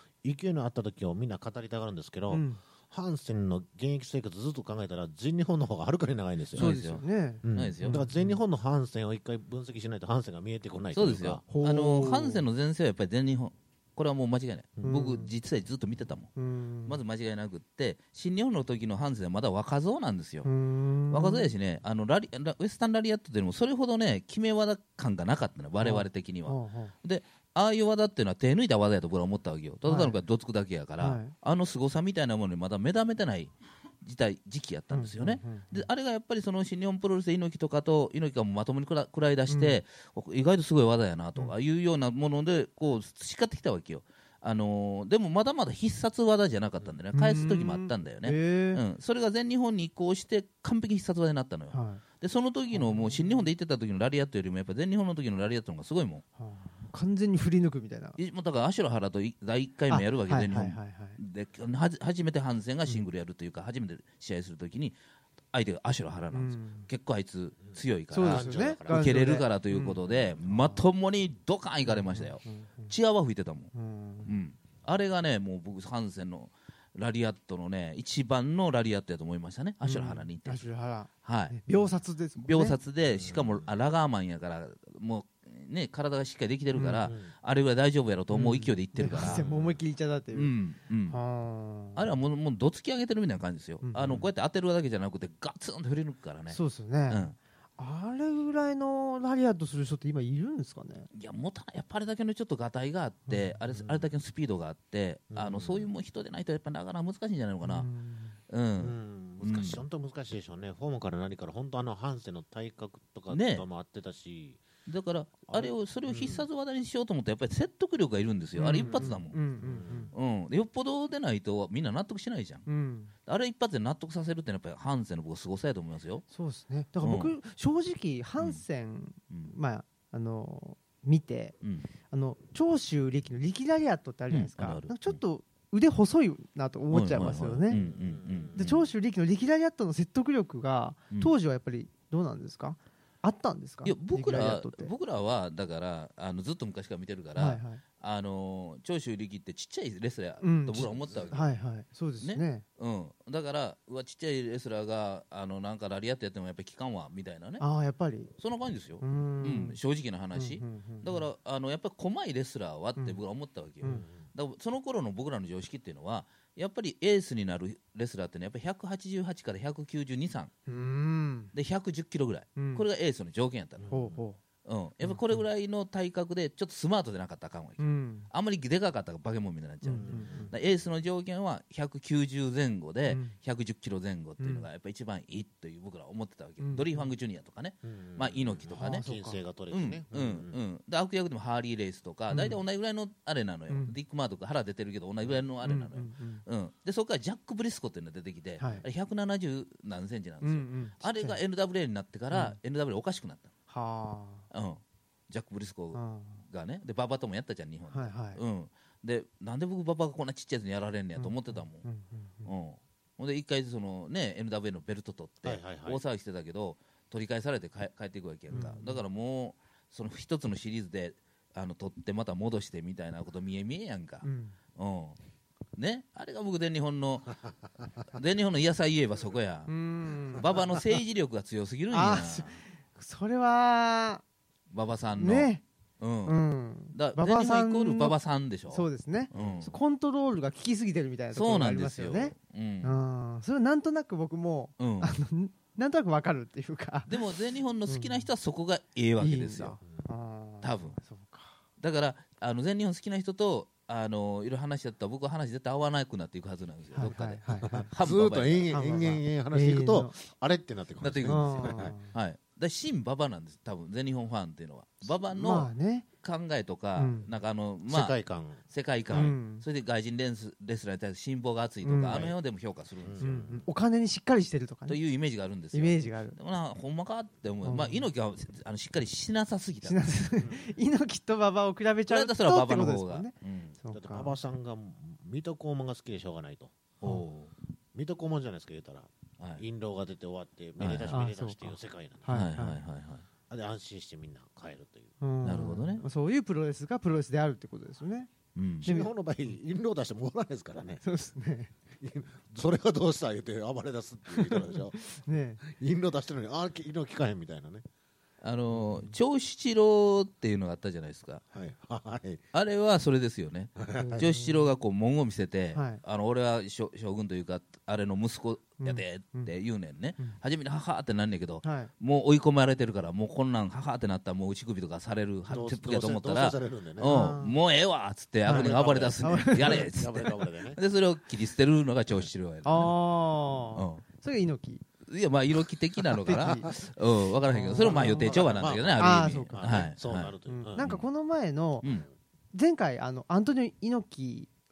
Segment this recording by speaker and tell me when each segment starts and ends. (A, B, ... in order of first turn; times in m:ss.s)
0:00.2-0:06.7 A
0:02.3-0:02.6 B
0:06.5-0:08.1 C
0:06.6-0:08.4 B
0:07.4-0:11.4 A
0:10.9-0:16.3 C
0:11.5-0:12.4 B
0:14.8-0:15.3 B
0:16.4-0:17.0 B
0:16.9-0:20.5 C
0:20.4-0:21.5 B
0:21.1-0:56.2 C
0:25.8-0:26.9 B
0:29.9-0:30.2 B
0:31.0-0:31.3 B
0:34.9-0:35.9 B
0:39.5-0:39.8 B
0:47.1-0:48.8 B
0:51.7-0:52.0 B
0:52.7-0:53.5 B
0:56.4-0:58.2 B
0:58.2-1:05.0 C
0:59.9-1:01.2 B
1:05.5-1:13.7 C
1:06.3-1:06.9 B
1:08.1-1:10.8 B
1:08.2-1:09.4 A
1:11.9-1:12.9 B
1:13.7-1:14.3 B
1:14.2-1:20.7 C
1:19.8-1:22.8 B
1:21.2-1:21.6 C
1:22.4-1:29.4 C
1:23.1-1:23.7 A
1:26.7-1:27.1 B
1:27.1-1:27.3 A
1:28.3-1:30.5 B
1:29.1-1:29.8 A
1:30.3-1:31.2 C
1:31.1-1:32.1 B
1:32.0-1:37.4 C
1:33.8-1:34.2 B
1:36.5-1:37.3 B
1:37.8-1:41.1 B
1:41.1-1:47.9 C
1:43.3-1:43.6 B
1:43.8-1:44.0 A
1:45.3-1:45.9 A
1:47.6-1:48.4 B
1:48.5-1:49.8 C
1:48.8-1:54.6 A
1:53.3-1:53.6 C
1:54.9-1:59.4 C
1:55.5-1:56.5 A
1:58.6-2:00.1 B
1:58.7-2:00.1 A
2:00.1-2:02.7 C
2:02.7-2:03.1 B
2:03.3-2:06.2 C
2:06.3-2:11.6 B
2:07.0-2:07.3 C
2:11.6-2:11.9 C
2:12.1-2:17.8 B
2:14.3-2:15.2 C
2:16.9-2:18.9 C
2:17.7-2:18.7 A
2:18.6-2:24.9 B
2:23.8-2:31.5 C
2:27.4-2:27.8 B
2:30.4-2:32.6 B
2:30.9-2:31.4 A
2:32.2-2:37.6 C
2:37.6-2:38.3 B
2:38.4-2:50.5 C
2:39.0-2:39.8 B
2:40.4-2:41.3 B
2:43.8-2:44.1 B
2:50.7-2:51.5 B
2:51.5-2:54.0 C
2:52.6-2:52.8 B
2:53.8-2:54.2 A
2:53.9-2:54.4 B
2:54.6-3:09.0 C
2:55.0-2:55.4 B
2:57.8-2:58.3 B
2:59.8-3:00.5 B
3:00.0-3:00.6 A
3:03.1-3:03.3 B
3:04.4-3:04.7 B
3:06.6-3:07.1 B
3:07.8-3:10.6 A
3:08.8-3:09.4 B
3:09.7-3:23.5 C
3:12.3-3:12.6 B
3:13.7-3:14.0 B
3:15.6-3:16.4 B
3:18.6-3:18.8 B
3:20.4-3:21.4 B
3:22.3-3:22.6 B
3:23.7-3:24.5 B
3:24.5-3:31.9 C
3:25.9-3:26.4 B
3:27.9-3:28.4 B
3:31.2-3:32.5 B
3:32.4-3:45.2 C
3:35.4-3:36.0 A
3:38.5-3:39.0 B
3:44.2-3:44.6 B
3:45.8-3:47.4 C
3:48.1-3:49.7 C
3:49.7-3:51.0 B
3:50.4-3:52.6 C
3:51.9-3:54.2 B
3:54.7-3:56.4 C
3:55.2-3:55.6 B
3:56.2-3:58.2 B
3:56.9-3:59.8 C
3:58.7-4:07.2 B
3:59.3-3:59.7 A
4:01.3-4:03.0 C
4:04.8-4:05.1 C
4:07.1-4:09.8 C
4:07.9-4:08.3 B
4:09.2-4:11.6 B
4:10.6-4:11.0 C
4:11.8-4:18.7 C
4:16.9-4:17.9 B
4:17.6-4:22.0 A
4:18.7-4:20.2 B
4:21.0-4:33.3 C
4:21.2-4:22.1 B
4:25.1-4:26.1 B
4:27.0-4:27.3 B
4:27.9-4:29.3 A
4:29.1-4:29.6 B
4:31.8-4:32.3 B
4:32.1-4:32.4 A
4:33.0-4:33.7 A
4:33.2-4:35.0 B
4:34.9-4:40.1 C
4:35.7-4:36.4 B
4:37.6-4:38.1 B
4:39.8-4:44.4 B
4:40.4-4:40.7 A
4:42.1-4:43.8 C
4:43.9-4:46.9 A
4:47.0-4:47.5 C
4:47.9-4:52.4 A
4:50.8-4:51.1 C
4:51.1-4:52.8 B
4:52.3-4:53.3 C
4:53.5-4:55.1 A
4:55.2-4:58.3 B
4:55.4-4:56.0 C
4:58.6-4:58.9 C
4:58.8-5:01.0 A
4:58.8-4:59.1 B
5:01.0-5:01.7 B
5:01.9-5:05.0 A
5:04.3-5:05.6 B
5:05.6-5:07.8 A
5:08.4-5:11.4 C
5:11.5-5:12.4 A
5:12.5-5:33.0 C
5:13.8-5:14.3 A
5:14.0-5:14.7 B
5:15.7-5:16.0 B
5:18.8-5:19.5 B
5:21.6-5:21.9 B
5:25.5-5:27.3 A
5:27.0-5:27.6 B
5:28.4-5:29.9 B
5:28.5-5:30.8 A
5:32.6-5:34.8 B
5:33.7-5:34.0 C
5:35.1-5:41.0 C
5:36.1-5:36.8 B
5:36.3-5:36.8 A
5:37.5-5:39.9 B
5:37.7-5:41.0 A
5:40.5-5:41.9 B
5:42.5-5:44.5 B